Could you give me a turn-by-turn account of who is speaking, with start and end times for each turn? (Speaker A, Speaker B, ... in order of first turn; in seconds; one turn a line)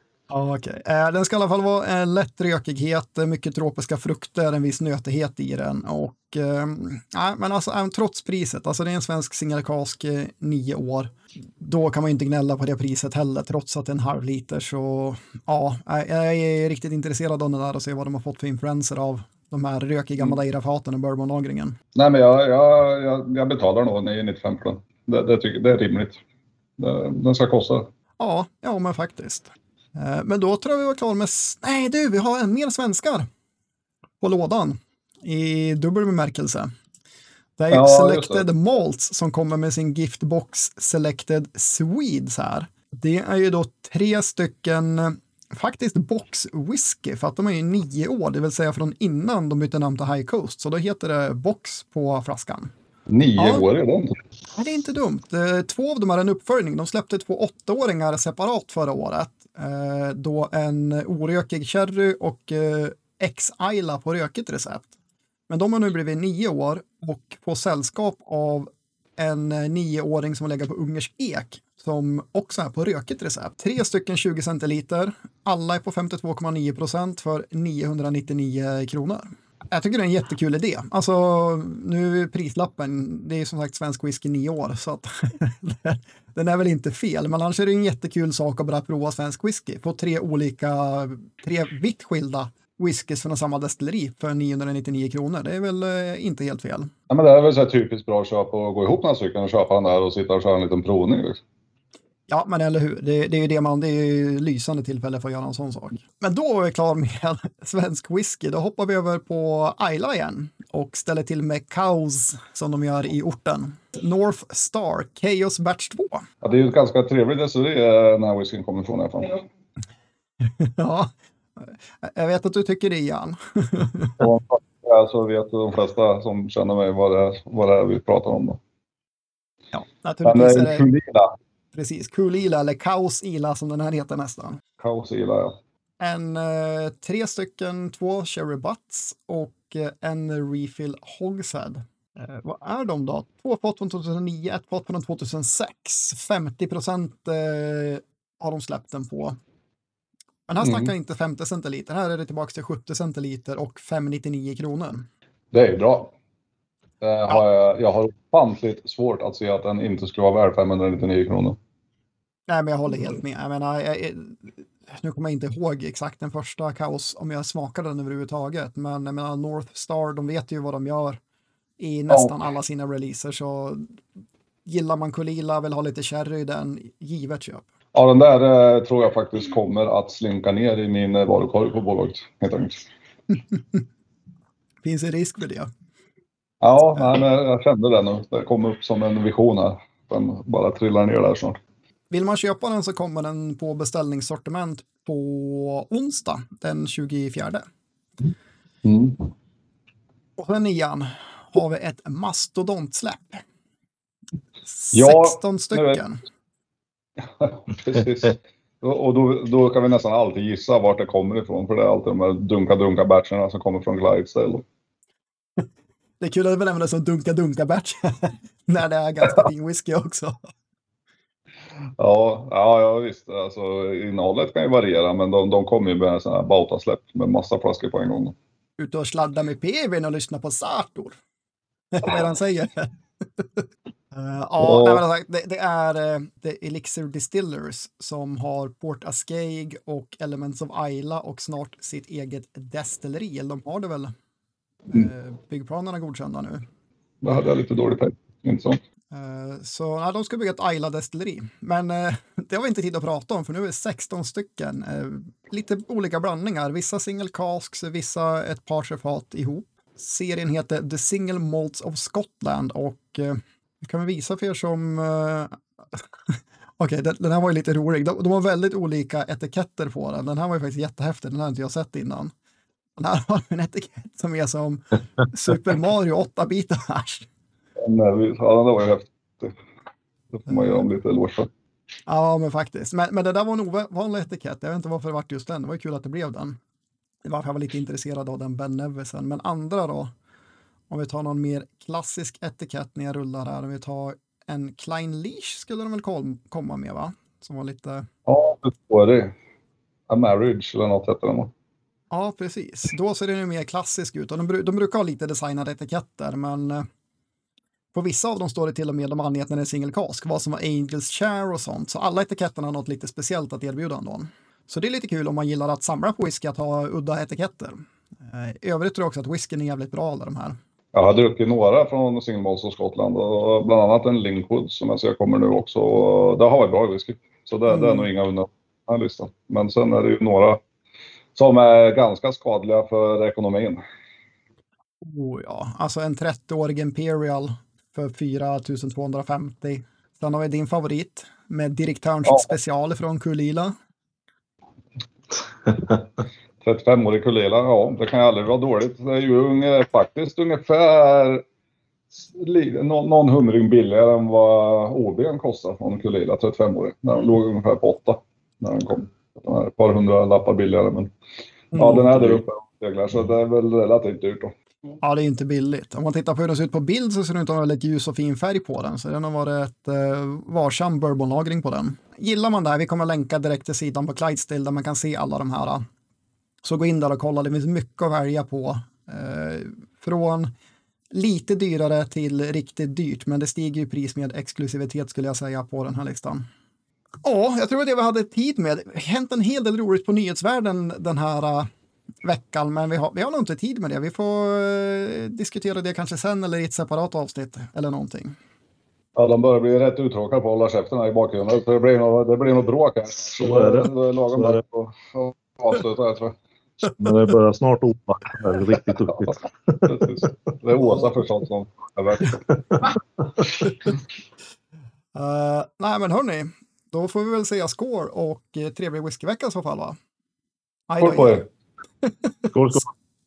Speaker A: 0.3-21.8
Speaker B: 21.9-26.2
Speaker B: 26.8-27.9
Speaker A: 28.2-33.3
Speaker A: 34.2-36.7
Speaker A: 37.6-52.7
Speaker B: 37.7-38.5
Speaker B: 53.1-54.2
Speaker A: 53.4-53.6
Speaker A: 54.5-64.9
Speaker A: 65.5-96.9
Speaker B: 97.1-101.4
Speaker A: 102.3-116.2
Speaker B: 116.4-119.5
Speaker A: 120.6-124.2
Speaker B: 124.2-128.6
Speaker A: 129.7-130.9
Speaker B: 130.2-131.3
Speaker A: 131.7-134.6
Speaker B: 134.8-135.6
Speaker A: 136.0-149.4
Speaker A: 150.5-155.1
Speaker B: 150.6-150.9
Speaker B: 155.5-156.1
Speaker B: 157.0-161.6
Speaker A: 162.5-171.2
Speaker A: 171.8-173.9
Speaker A: 174.7-177.7
Speaker B: 177.9-182.8
Speaker A: 184.8-185.7
Speaker B: 186.6-191.6
Speaker A: 192.1-197.6
Speaker B: 198.8-199.2
Speaker A: 200.4-203.4
Speaker A: 204.7-206.2
Speaker B: 204.9-206.0
Speaker B: 207.4-214.6
Speaker A: 216.2-220.3
Speaker B: 222.0-228.3
Speaker A: 228.8-231.2
Speaker A: 231.9-244.1
Speaker B: 234.6-235.0
Speaker A: 244.9-246.6
Speaker B: 247.2-248.8
Speaker A: 249.1-272.3
Speaker A: 273.0-277.3
Speaker B: 277.8-279.6
Speaker B: 280.3-281.5
Speaker A: 282.1-286.6
Speaker A: 287.2-290.1
Speaker A: 290.9-298.1
Speaker B: 298.2-299.3
Speaker B: 300.1-301.5
Speaker A: 302.1-306.9
Speaker A: 307.9-320.6
Speaker B: 320.9-330.6
Speaker A: 327.7-328.1
Speaker B: 331.4-333.8
Speaker A: 335.0-343.7
Speaker B: 346.6-351.4
Speaker B: 352.1-361.1
Speaker B: 361.7-364.5
Speaker A: 361.7-362.3
Speaker A: 365.0-375.8
Speaker A: 376.6-380.5
Speaker A: 381.1-386.4
Speaker A: 387.2-391.7
Speaker A: 392.2-398.3
Speaker B: 399.1-406.4
Speaker C: 403.3-404.6
Speaker C: 407.0-409.9
Speaker B: 409.8-412.5
Speaker A: 415.1-420.0
Speaker A: 420.9-421.5
Speaker B: 421.0-421.4
Speaker A: 422.0-422.8
Speaker C: 422.5-422.9